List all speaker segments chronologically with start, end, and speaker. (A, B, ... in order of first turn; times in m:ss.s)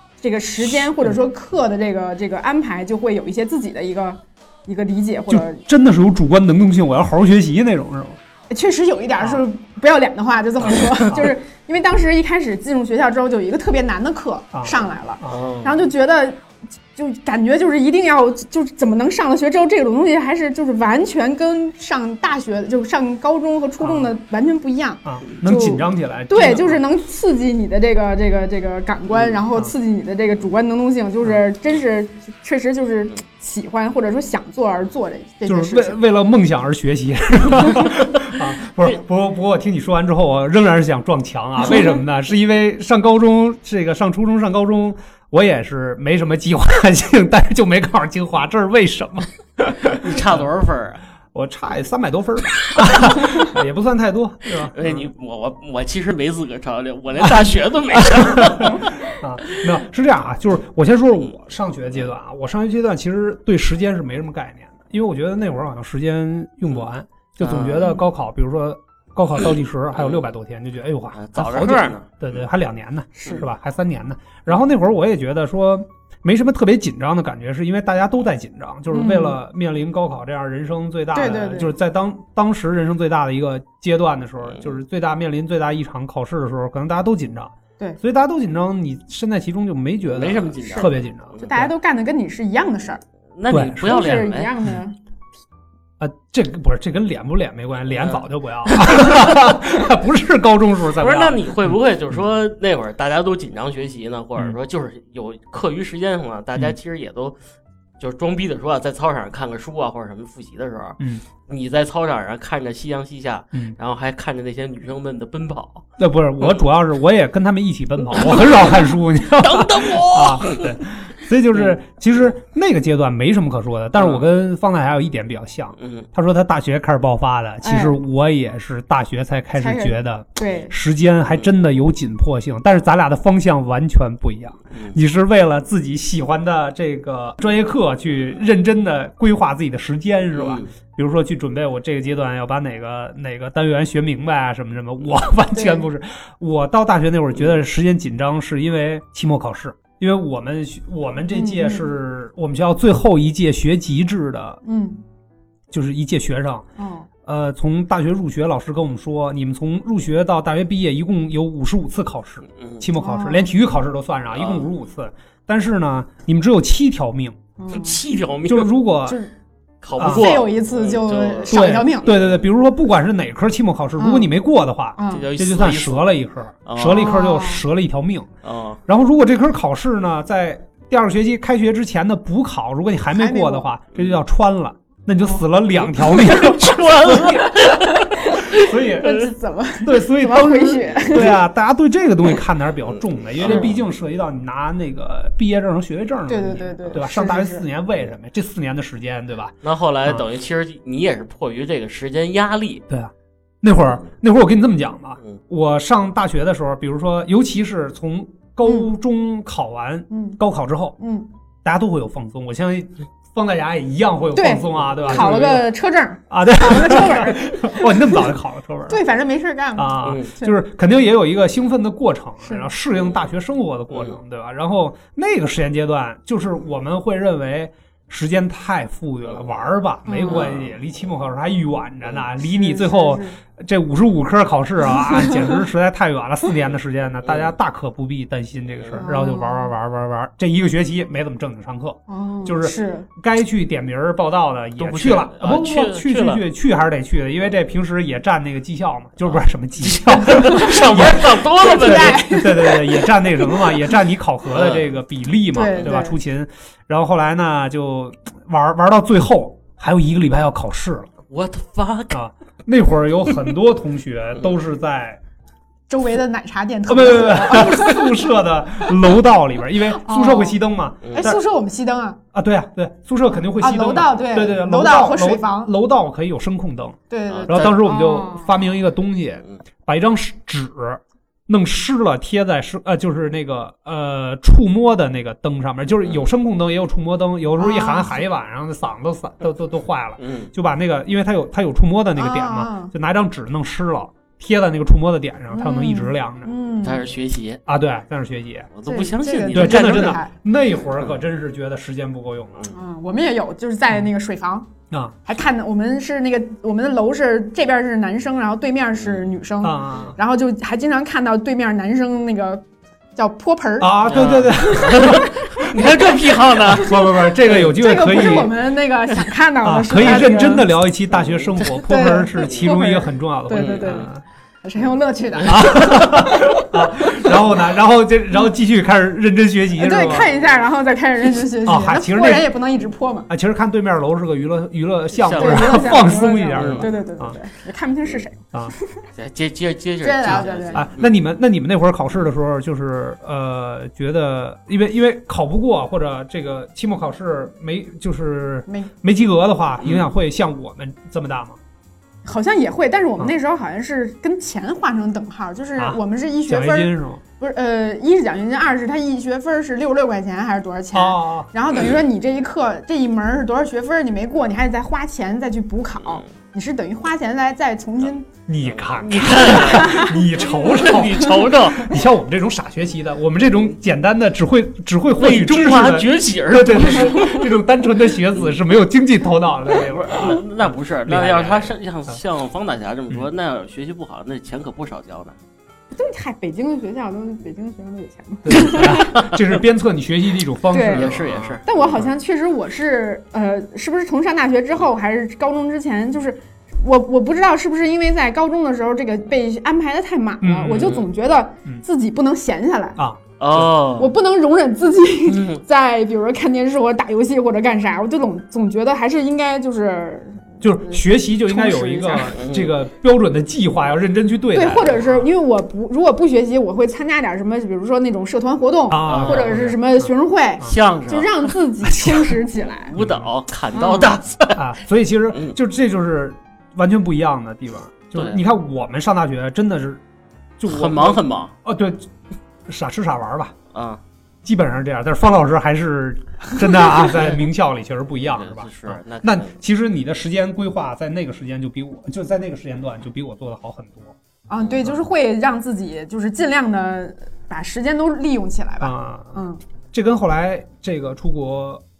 0:00.2-0:05.6 A
0:05.3-0:08.2 B
0:08.5-0:16.4 A
0:14.5-0:15.4 B
0:15.2-0:15.9 C
0:17.0-0:36.0 A
0:23.8-0:24.1 B
0:25.0-0:26.8 B
0:29.1-0:29.4 C
0:35.4-0:50.4 B
0:50.0-0:51.0 C
0:51.3-0:55.0 B
0:54.7-0:59.6 C
0:58.2-1:31.7 B
1:07.4-1:07.9 C
1:07.7-1:08.0 A
1:10.0-1:10.3 C
1:11.1-1:12.4 C
1:13.1-1:13.4 A
1:18.9-1:19.4 A
1:21.1-1:21.7 A
1:30.0-1:31.5 C
1:30.7-1:33.0 A
1:33.3-1:34.5 C
1:33.5-1:34.7 B
1:33.8-1:35.0 A
1:36.0-1:41.4 B
1:37.9-1:38.2 C
1:41.0-1:47.4 C
1:48.0-1:55.9 C
1:56.0-2:34.6 B
1:58.1-1:58.8 C
1:59.4-2:00.8 C
2:04.0-2:04.2 C
2:05.8-2:06.1 C
2:07.6-2:08.0 A
2:09.6-2:10.8 A
2:14.7-2:15.0 C
2:20.3-2:20.7 C
2:25.5-2:25.8 A
2:31.3-2:31.9 A
2:34.6-2:35.0 A
2:35.7-2:36.7 B
2:36.8-2:37.1 A
2:37.2-2:47.4 B
2:42.6-2:42.8 C
2:43.0-2:43.5 A
2:44.3-2:44.7 C
2:47.6-2:48.0 A
2:47.7-2:48.7 C
2:48.5-2:49.2 B
2:49.0-2:49.3 A
2:49.8-2:52.4 C
2:50.0-2:50.3 B
2:50.0-2:52.1 A
2:51.5-2:58.3 B
2:54.0-2:54.3 A
2:55.0-2:55.3 A
2:55.1-2:56.1 C
2:56.6-2:57.1 C
2:56.9-2:57.6 A
2:58.4-2:58.8 C
2:58.9-3:07.5 B
3:03.1-3:03.7 A
3:03.9-3:04.2 C
3:05.8-3:08.7 C
3:07.8-3:11.4 A
3:08.4-3:09.3 B
3:09.8-3:20.2 B
3:10.8-3:11.4 C
3:13.4-3:13.8 C
3:16.3-3:17.6 A
3:19.6-3:22.8 C
3:22.9-3:31.0 B
3:28.6-3:28.9 A
3:30.1-3:30.4 A
3:31.0-3:31.3 A
3:31.6-3:35.7 B
3:34.3-3:38.3 A
3:35.1-3:35.4 C
3:36.3-3:39.0 B
3:38.9-3:40.6 A
3:39.8-4:21.1 B
3:40.0-3:40.3 C
3:50.0-3:50.5 A
3:50.3-3:50.7 C
3:52.4-3:53.4 A
3:55.0-3:55.6 A
3:57.2-3:57.5 C
3:58.9-3:59.7 A
4:02.1-4:03.1 A
4:04.8-4:06.4 C
4:09.8-4:12.5 C
4:11.5-4:13.6 A
4:14.5-4:14.9 C
4:15.5-4:16.2 A
4:21.3-4:22.2 C
4:22.1-4:25.2 B
4:25.9-4:28.2 A
4:26.9-4:31.4 B
4:29.9-4:30.6 A
4:31.0-4:31.3 C
4:31.1-4:32.2 A
4:32.3-4:56.5 B
4:33.6-4:35.7 A
4:37.1-4:38.7 A
4:37.3-4:37.8 C
4:47.6-4:48.2 A
4:50.2-4:50.5 C
4:52.2-4:52.9 A
4:55.5-4:57.0 A
4:56.8-4:57.6 C
4:57.7-4:58.7 B
4:58.7-5:00.2 C
4:58.9-5:00.3 A
4:59.5-5:02.7 B
5:01.0-5:01.2 C
5:02.7-5:04.7 A
5:04.9-5:05.2 B
5:05.2-5:12.6 A
5:09.6-5:10.2 B
5:13.2-5:16.9 A
5:13.8-5:15.3 B
5:14.0-5:17.6 C
5:16.7-5:18.6 B
5:17.5-5:20.7 A
5:19.6-5:24.2 B
5:21.1-5:21.7 C
5:21.8-5:24.1 A
5:23.5-5:24.1 C
5:24.6-5:27.3 A
5:25.4-5:30.3 B
5:29.8-5:33.3 A
5:31.6-5:32.5 B
5:33.3-5:37.4 B
5:35.1-5:36.9 C
5:35.3-5:39.0 A
5:39.2-5:41.1 C
5:40.0-5:40.9 A
5:40.2-5:51.6 B
5:48.7-5:48.9 A
5:49.8-5:50.1 C
5:52.2-6:08.3 A
5:55.8-5:57.2 B
6:00.9-6:01.5 B
6:08.5-6:22.2 B
6:08.6-6:11.9 C
6:09.5-6:10.2 A
6:15.2-6:17.6 C
6:19.7-6:25.4 C
6:25.9-6:29.3 A
6:28.4-6:31.6 B
6:28.7-6:29.4 C
6:30.7-6:43.0 A
6:30.8-6:32.0 C
6:40.4-6:41.0 B
6:43.4-6:44.1 C
6:44.0-6:52.4 A
6:45.2-6:45.6 C
6:50.6-6:55.3 B
6:52.3-6:52.8 C
6:54.5-7:03.0 A
6:58.9-7:00.1 B
6:59.0-6:59.8 C
7:00.6-7:01.5 C
7:01.8-7:02.4 B
7:02.8-7:04.7 C
7:03.0-7:03.3 B
7:03.7-7:04.2 A
7:04.5-7:10.0 B
7:05.3-7:05.6 C
7:08.1-7:08.4 C
7:10.6-7:12.1 B
7:10.7-7:11.5 C
7:12.7-7:13.6 B
7:13.7-7:14.0 C
7:14.4-7:24.2 B
7:18.2-7:19.5 C
7:24.5-7:29.6 A
7:24.6-7:24.9 C
7:28.8-7:29.4 B
7:29.9-7:31.8 B